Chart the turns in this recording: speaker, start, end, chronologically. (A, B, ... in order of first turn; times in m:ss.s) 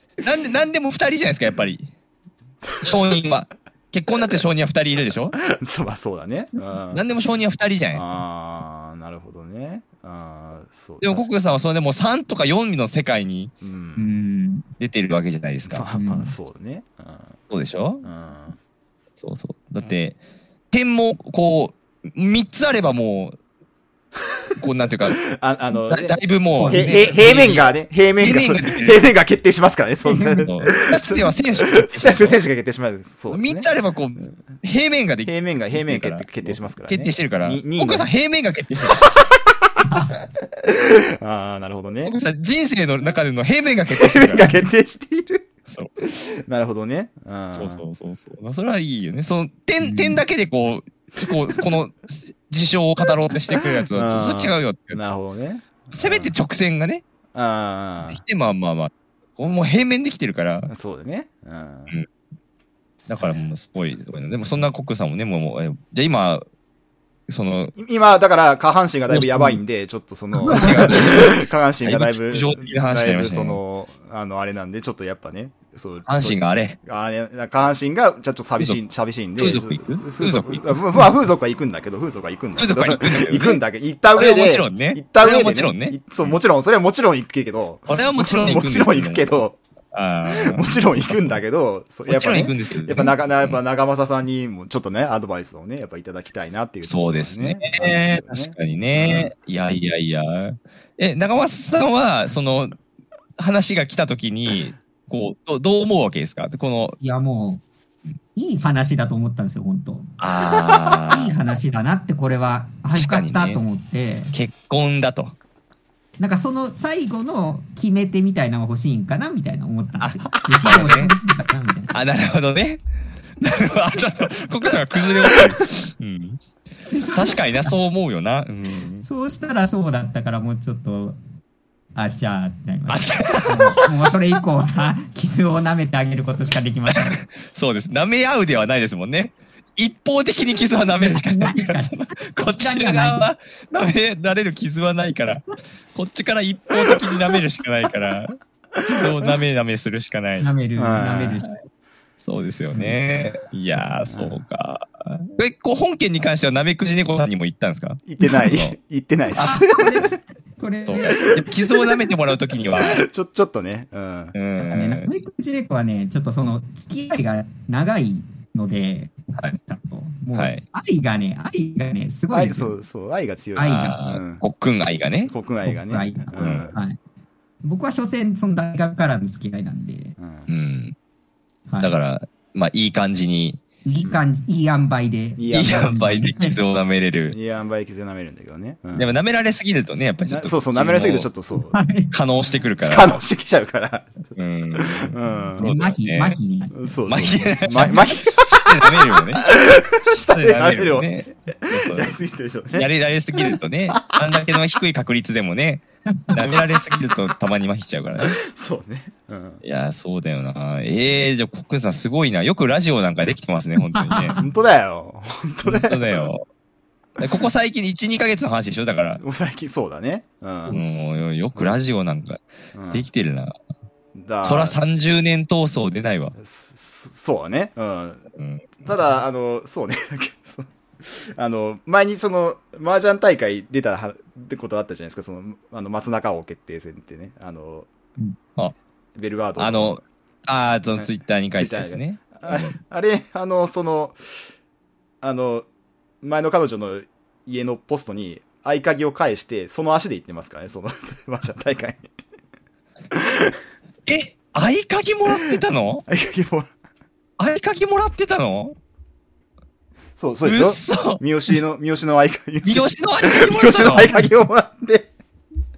0:00.2-0:01.9 A
0:02.7-0:02.9 B
0:02.8-0:05.4 A
0:05.4-0:07.0 B
0:06.9-0:08.2 A
0:07.9-0:11.3 B
0:11.0-0:13.5 A
0:13.6-0:14.1 B
0:14.0-0:14.7 C
0:14.8-0:15.8 A
0:15.6-0:17.4 B
0:15.9-0:16.3 C
0:17.5-0:18.0 A
0:18.0-0:18.6 B
0:19.2-0:20.2 A
0:20.7-0:23.4 A
0:24.6-0:25.2 A
0:25.2-0:26.2 B
0:25.9-0:29.0 A
0:26.5-0:27.2 C
0:26.7-0:33.7 B
0:30.0-0:30.5 C
0:30.4-0:32.4 A
0:33.3-0:39.0 A
0:35.2-0:38.1 B
0:38.9-0:39.8 B
0:39.9-0:40.1 C
0:40.6-0:42.1 B
0:42.0-0:44.6 A
0:43.9-0:45.4 B
0:46.0-0:47.8 B
0:47.5-0:55.0 A
0:49.8-0:50.2 C
0:53.5-0:56.3 B
0:55.9-0:57.0 A
0:57.3-0:58.2 B
0:58.1-1:00.7 A
1:00.7-1:02.0 B
1:03.1-1:06.4 A
1:07.3-1:07.7 A
1:07.8-1:29.6 B
1:09.1-1:09.6 A
1:10.4-1:13.6 A
1:16.1-1:16.8 A
1:19.4-1:21.0 A
1:22.6-1:23.6 A
1:24.1-1:26.4 A
1:27.9-1:29.4 A
1:29.9-1:31.4 A
1:30.3-1:39.3 B
1:32.1-1:33.6 A
1:36.8-1:42.8 A
1:43.4-1:47.0 A
1:47.0-1:47.6 C
1:48.3-1:50.1 C
1:50.2-1:51.3 A
1:51.1-1:54.3 C
1:52.9-1:53.6 A
1:54.3-1:55.4 A
1:56.2-2:01.9 C
2:00.0-2:01.1 A
2:01.9-2:02.8 A
2:03.4-2:06.4 A
2:06.9-2:07.7 C
2:07.1-2:09.0 A
2:09.0-2:11.2 C
2:11.9-2:17.2 C
2:12.9-2:14.1 A
2:16.9-2:25.4 A
2:21.0-2:23.3 C
2:25.9-2:30.5 A
2:28.8-2:29.3 B
2:30.4-2:31.5 C
2:30.8-2:31.4 B
2:32.2-2:38.7 A
2:34.1-2:34.4 B
2:38.1-2:40.0 B
2:39.4-2:41.3 C
2:40.8-2:43.0 A
2:41.2-2:42.1 B
2:42.7-2:44.3 B
2:44.3-2:45.1 A
2:44.6-2:52.7 C
2:50.3-2:50.6 A
2:52.3-2:54.4 B
2:53.6-2:54.0 C
2:53.7-2:55.3 A
2:55.3-2:56.8 B
2:55.6-2:57.0 C
2:56.4-2:56.7 A
2:57.6-3:00.2 C
3:00.2-3:00.5 B
3:00.5-3:01.0 A
3:01.7-3:02.0 C
3:01.8-3:03.6 A
3:03.8-3:06.6 C
3:05.4-3:06.3 B
3:05.5-3:07.4 A
3:07.3-3:09.1 B
3:08.9-3:11.3 A
3:10.3-3:11.8 B
3:11.7-3:12.1 C
3:12.1-3:13.2 A
3:12.8-3:15.8 B
3:14.4-3:16.4 A
3:15.6-3:18.0 C
3:16.7-3:24.2 B
3:17.1-3:19.5 A
3:20.1-3:22.2 A
3:22.7-3:28.4 A
3:28.2-3:29.6 B
3:29.6-3:34.4 A
3:33.9-3:34.4 C
3:34.4-3:36.3 B
3:35.6-3:36.4 A
3:37.2-3:39.2 A
3:39.2-3:40.8 B
3:40.7-3:43.6 A
3:42.7-3:43.0 B
3:44.1-3:44.8 B
3:44.4-3:46.3 A
3:46.4-3:48.2 B
3:48.4-3:48.7 A
3:48.8-3:57.9 B
3:59.1-4:00.0 B
3:59.6-4:02.7 A
4:00.9-4:04.2 B
4:05.2-4:05.7 B
4:06.2-4:12.0 B
4:13.1-4:13.6 B
4:14.0-4:16.0 A
4:16.1-4:16.7 B
4:17.4-4:18.8 A
4:20.2-4:25.1 B
4:20.4-4:21.2 A
4:22.6-4:24.1 A